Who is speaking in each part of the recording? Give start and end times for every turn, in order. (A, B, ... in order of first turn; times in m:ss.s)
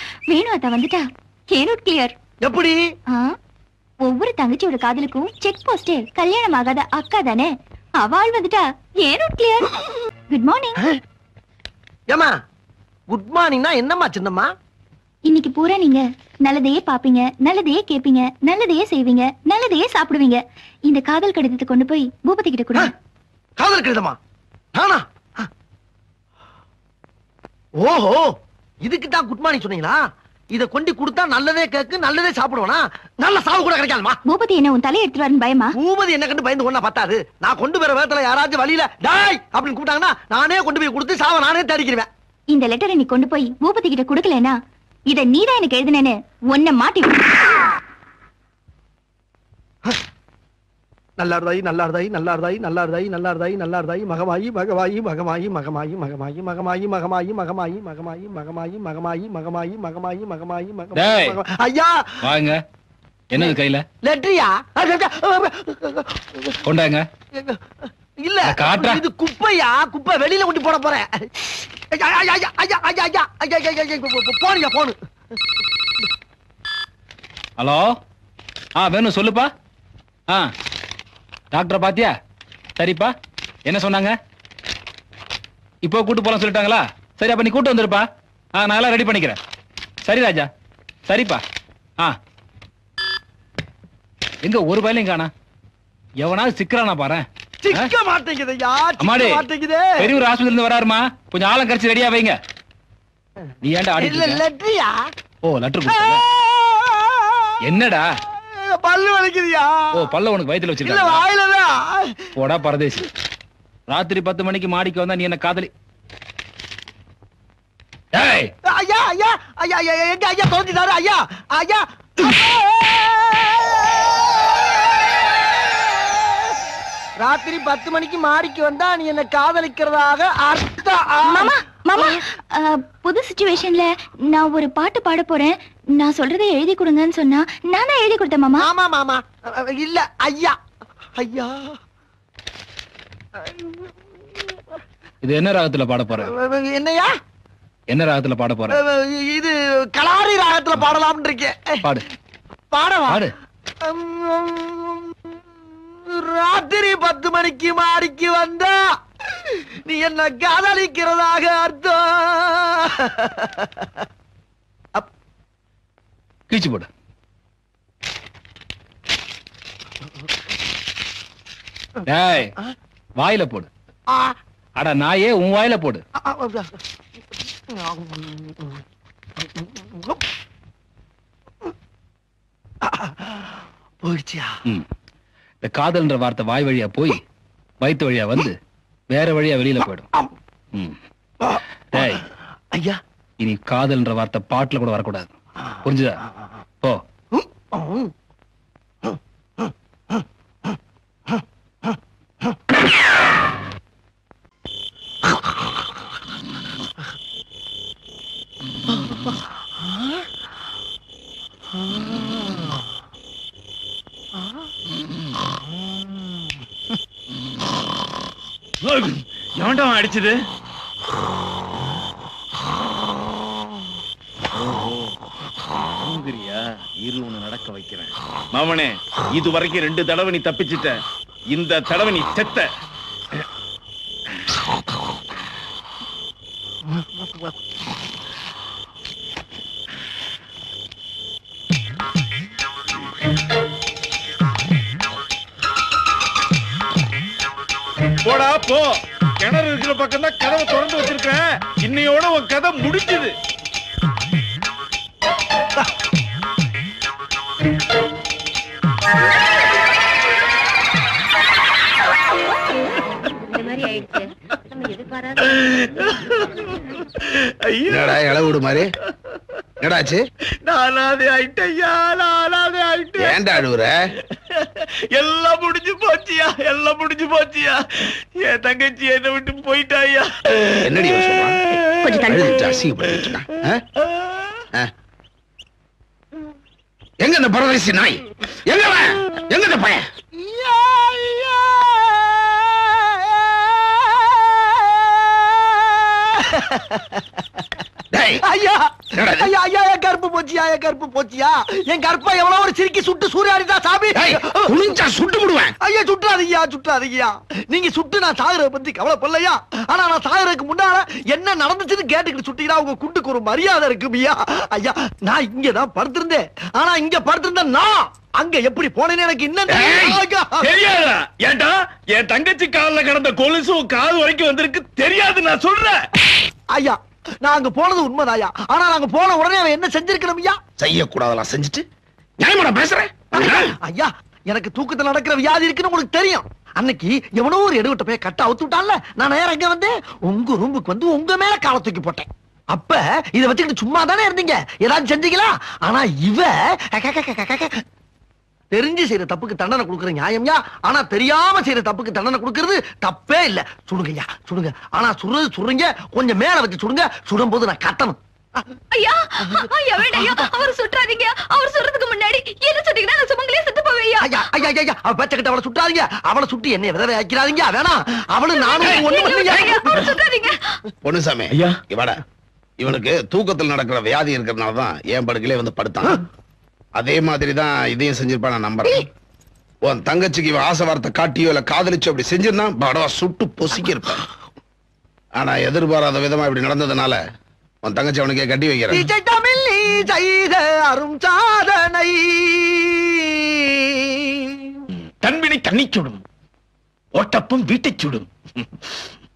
0:00.3-0:02.2 A
0:02.4-0:02.8 B
0:03.1-0:03.4 A
0:04.0-0:09.8 A
0:10.3-0:10.8 A
0:13.1-0:14.5 B
0:15.3-0:22.9 A
0:23.6-0:24.2 B
0:24.8-0:25.5 B
0:27.8-0:28.3 B
0:28.8-0:30.0 B
0:30.5-0:34.2 B
0:34.3-0:35.8 A
0:35.8-0:42.1 B
0:42.5-0:44.6 A
0:45.1-0:47.3 A
0:51.2-1:02.1 B
1:01.0-1:01.4 C
1:02.2-1:02.6 C
1:03.3-1:03.8 C
1:03.4-1:06.6 B
1:06.7-1:07.1 C
1:07.4-1:15.0 B
1:08.5-1:09.0 C
1:17.6-1:18.0 C
1:18.8-1:19.5 C
1:21.5-1:22.1 C
1:22.8-1:23.1 C
1:23.7-1:24.2 C
1:25.8-1:29.4 C
1:30.1-1:30.5 C
1:31.1-1:31.4 C
1:34.4-1:35.3 C
1:36.2-1:37.9 C
1:37.6-1:40.0 B
1:39.0-1:39.4 C
1:40.0-1:42.4 C
1:43.6-1:44.4 C
1:44.0-1:45.0 B
1:45.4-1:46.2 C
1:45.9-1:47.5 B
1:47.7-1:48.0 C
1:48.6-1:50.1 B
1:50.0-1:51.2 C
1:50.8-1:52.3 B
1:52.4-1:53.1 C
1:53.9-1:55.7 C
1:58.1-1:58.5 C
1:58.7-2:06.4 B
2:07.2-2:12.2 B
2:11.3-2:18.6 A
2:18.6-2:20.6 B
2:21.2-2:21.7 B
2:23.4-2:23.9 B
2:25.2-2:26.3 C
2:26.2-2:27.1 B
2:27.9-2:28.8 C
2:28.7-2:31.8 B
2:32.7-2:33.2 B
2:33.8-2:35.1 B
2:36.1-2:38.8 B
2:39.4-2:43.9 B
2:46.5-2:46.9 C
2:52.1-2:52.5 C
2:53.2-2:53.7 C
2:54.8-2:56.0 C
2:56.2-2:56.8 B
2:57.7-2:58.8 B
2:59.4-3:00.2 B
3:02.8-3:04.6 B
3:05.6-3:07.2 C
3:07.8-3:08.6 C
3:09.1-3:10.1 C
3:11.4-3:13.0 B
3:11.9-3:12.2 C
3:13.4-3:15.3 C
3:15.8-3:16.2 C
3:17.4-3:18.1 B
3:38.8-3:40.4 D
3:44.6-3:45.1 D
3:46.0-3:51.0 D
3:51.5-3:52.7 D
4:08.2-4:08.9 D
4:09.4-4:13.3 D
4:25.4-4:28.6 D
4:27.9-4:28.9 E
4:29.8-4:30.2 E
4:30.6-4:33.4 D
4:33.2-4:34.0 E
4:34.5-4:42.3 D
4:40.8-4:41.6 E
4:42.0-4:42.6 A
4:42.2-4:43.8 E
4:47.2-4:50.0 E
4:50.4-4:57.4 B
4:58.1-4:58.4 E
4:58.4-5:04.7 B
4:59.1-4:59.5 E
5:04.1-5:05.8 E
5:05.8-5:20.7 B
5:19.8-5:20.2 E
5:20.6-5:26.0 D
5:26.7-5:30.6 B
5:30.8-5:31.8 E
5:32.4-5:33.7 E
5:33.3-5:47.8 B
5:48.7-5:58.2 B
5:58.9-6:04.5 F
5:59.4-6:00.5 B
6:04.2-6:10.1 B
6:08.5-6:10.6 F
6:11.0-6:12.2 E
6:11.5-6:11.8 D
6:12.8-6:16.2 E
6:17.0-6:19.1 E
6:19.8-6:24.2 E
6:25.4-6:27.2 E
6:27.8-6:29.1 E
6:28.9-6:34.6 B
6:35.2-6:36.2 D
6:37.1-6:38.6 D